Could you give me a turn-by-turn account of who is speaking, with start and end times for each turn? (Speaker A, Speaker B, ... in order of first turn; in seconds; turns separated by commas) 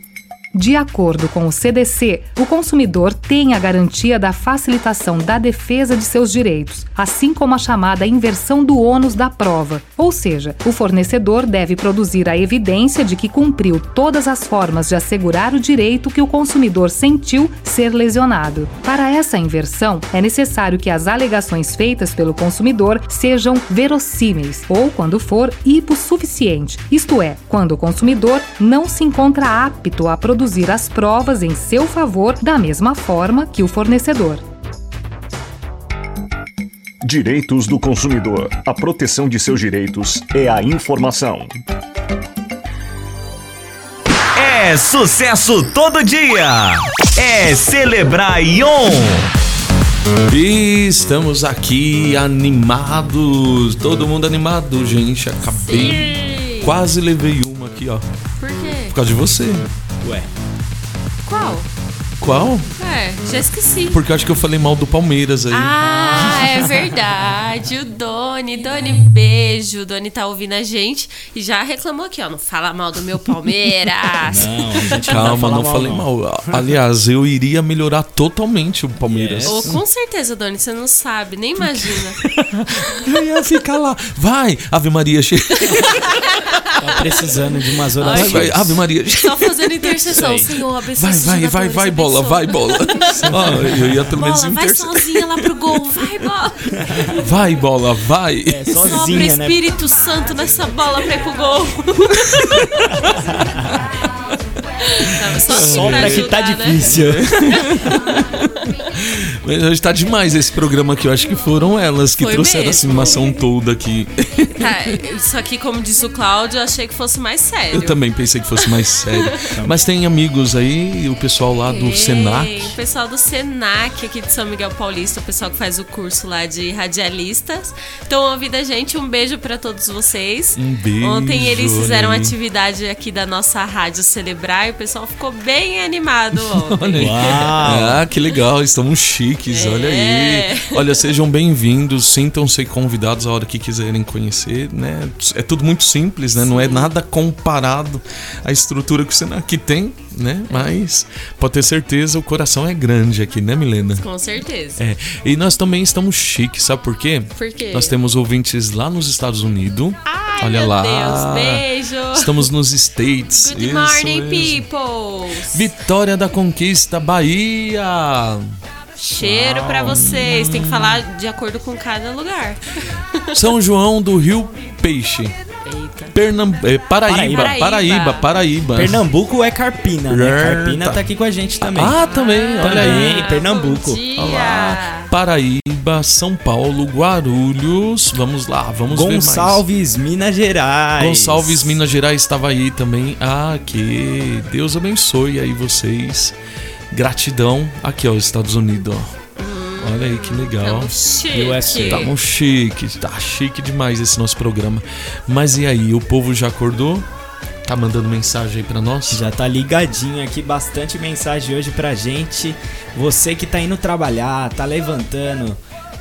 Speaker A: 0.5-34.4, Speaker B: 37.0-41.5, Speaker C: 44.4-49.3, Speaker D: 50.3-58.0, Speaker E: 55.5-56.7, Speaker E: 58.4-59.0, Speaker D: 58.9-59.7, Speaker F: 60.0-60.3, Speaker E: 61.3-61.7, Speaker D: 62.2-62.7, Speaker E: 62.8-64.0, Speaker D: 63.9-65.8, Speaker E: 65.5-75.0, Speaker F: 65.9-66.4, Speaker F: 74.3-76.1, Speaker D: 75.0-79.8, Speaker F: 79.1-79.6, Speaker E: 79.5-82.2, Speaker D: 82.4-86.1, Speaker F: 86.8-88.8, Speaker E: 88.0-88.5, Speaker D: 88.0-89.7, Speaker E: 89.2-93.4, Speaker F: 90.1-90.5, Speaker D: 91.0-95.4, Speaker F: 93.3-93.9, Speaker E: 94.1-96.8, Speaker D: 97.2-99.3, Speaker F: 98.5-99.6, Speaker E: 98.9-102.9, Speaker E: 104.8-107.0, Speaker D: 105.5-106.3, Speaker F: 105.5-107.8, Speaker D: 106.8-108.1, Speaker D: 108.9-114.7, Speaker E: 112.2-113.2, Speaker E: 114.5-118.0, Speaker D: 117.7-122.8, Speaker F: 119.5-119.8, Speaker E: 121.7-137.1, Speaker D: 130.6-132.3, Speaker D: 136.6-154.1, Speaker F: 137.0-138.0, Speaker E: 139.5-141.1, Speaker E: 146.4-146.9, Speaker E: 154.0-154.8, Speaker D: 154.8-161.6, Speaker E: 157.4-158.0, Speaker E: 160.1-162.5, Speaker D: 162.1-164.6, Speaker E: 163.4-165.7, Speaker D: 165.5-168.5, Speaker E: 169.0-172.6, Speaker D: 169.2-171.0, Speaker D: 173.3-175.3, Speaker E: 175.7-176.1, Speaker D: 176.1-179.0, Speaker F: 177.1-177.6, Speaker E: 177.3-178.2, Speaker F: 178.8-182.0, Speaker D: 180.1-181.0, Speaker D: 181.6-183.3, Speaker E: 182.1-185.1, Speaker F: 182.6-184.0, Speaker D: 184.2-189.6, Speaker F: 188.9-191.8, Speaker D: 191.0-196.3, Speaker D: 196.9-199.1, Speaker E: 199.4-202.1, Speaker D: 199.8-200.9, Speaker F: 201.3-202.2, Speaker D: 201.7-207.1, Speaker D: 207.7-209.2, Speaker F: 209.1-215.6